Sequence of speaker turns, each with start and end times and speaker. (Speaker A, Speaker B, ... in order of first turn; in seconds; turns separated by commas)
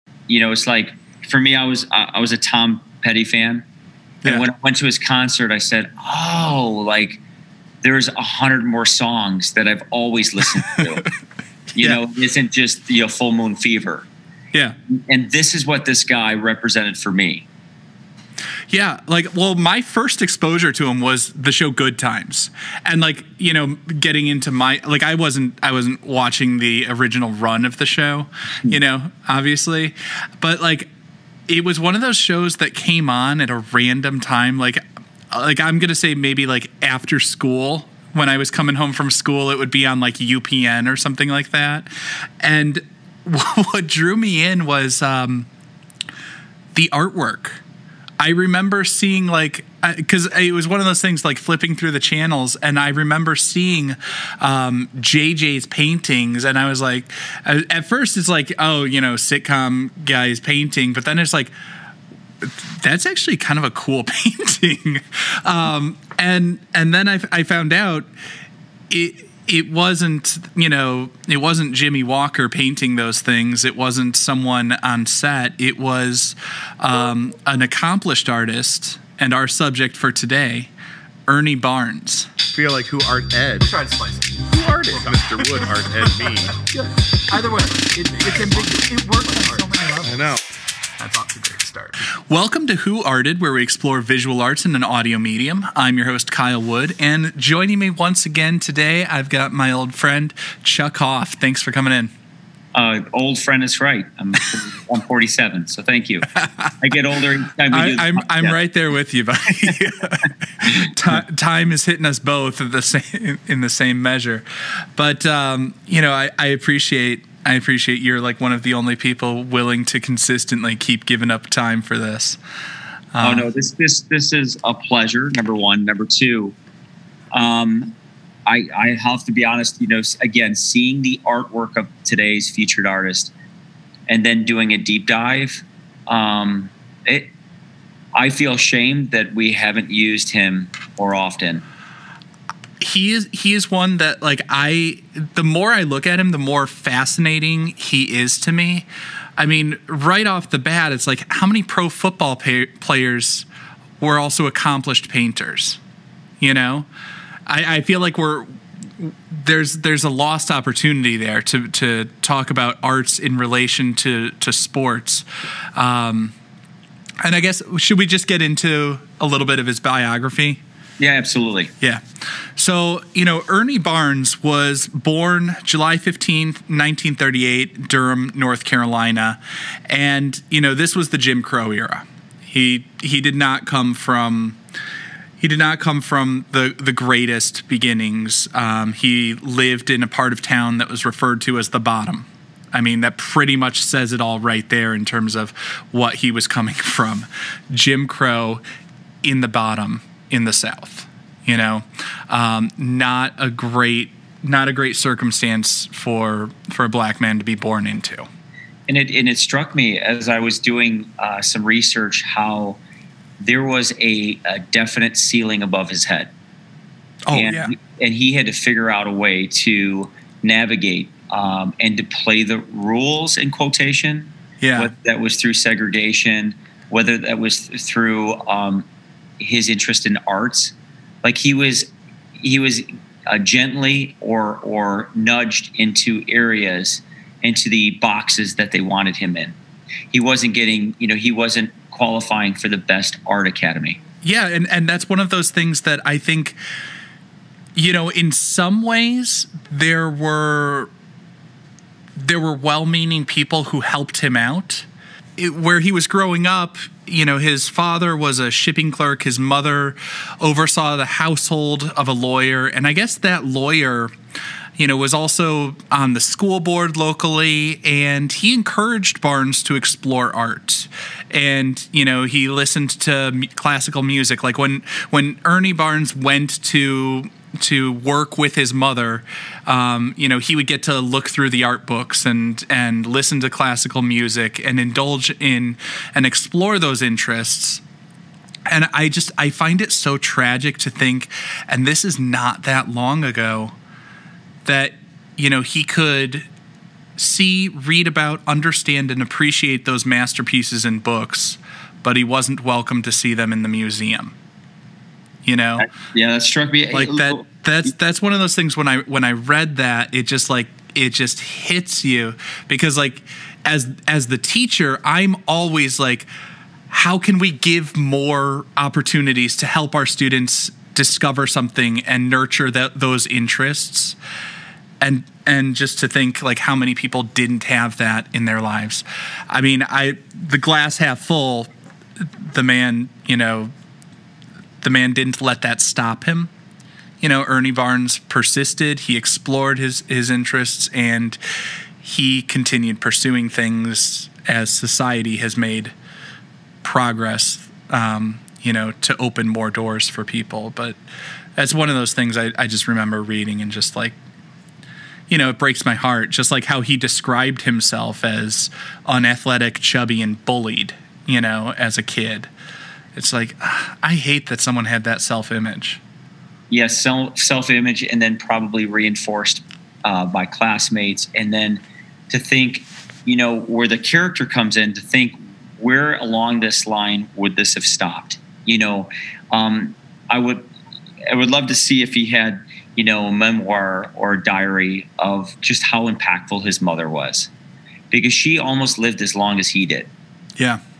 Speaker A: 0.3-3.6, Speaker A: 4.2-7.2, Speaker A: 7.8-11.1, Speaker A: 11.7-14.1, Speaker A: 14.9-17.4, Speaker B: 18.7-30.9, Speaker B: 31.5-41.9, Speaker B: 42.4-45.5, Speaker B: 46.7-47.6, Speaker B: 48.2-61.5, Speaker B: 62.4-68.1, Speaker B: 68.9-80.7, Speaker B: 81.3-82.3, Speaker C: 82.5-83.7, Speaker D: 83.6-86.4, Speaker C: 84.6-86.5, Speaker D: 87.3-90.3, Speaker C: 90.1-90.4, Speaker D: 91.0-92.0, Speaker B: 92.3-102.1, Speaker A: 102.7-108.6, Speaker B: 106.3-106.7, Speaker B: 107.7-122.4, Speaker A: 110.6-110.9, Speaker B: 123.1-123.5, Speaker A: 123.2-126.5, Speaker A: 127.3-127.9, Speaker A: 128.4-133.3, Speaker A: 134.1-137.3, Speaker A: 138.1-141.6, Speaker B: 142.8-153.5, Speaker B: 154.0-155.8, Speaker B: 156.4-156.9, Speaker B: 157.4-166.3, Speaker B: 167.2-170.6, Speaker A: 171.0-171.7, Speaker B: 172.6-184.6, Speaker B: 185.4-198.6, Speaker B: 199.2-208.3, Speaker A: 208.9-212.8, Speaker A: 213.4-216.3, Speaker B: 217.3-217.7, Speaker A: 217.3-228.8, Speaker B: 224.6-224.9, Speaker A: 229.4-239.5, Speaker A: 240.1-244.0, Speaker B: 244.2-246.6, Speaker B: 247.7-250.9, Speaker B: 252.2-264.1, Speaker B: 264.8-287.8, Speaker B: 288.7-293.7, Speaker B: 294.6-296.5, Speaker B: 297.2-304.3, Speaker B: 305.4-305.9, Speaker A: 305.8-307.4, Speaker B: 306.9-316.3, Speaker B: 316.9-324.2, Speaker B: 325.0-333.7, Speaker B: 334.8-336.5, Speaker B: 337.2-341.4, Speaker B: 342.0-345.9, Speaker B: 346.8-351.0, Speaker B: 351.6-354.1, Speaker B: 355.3-362.5, Speaker B: 363.1-366.0, Speaker A: 366.7-380.7, Speaker A: 381.3-387.5, Speaker A: 388.1-390.1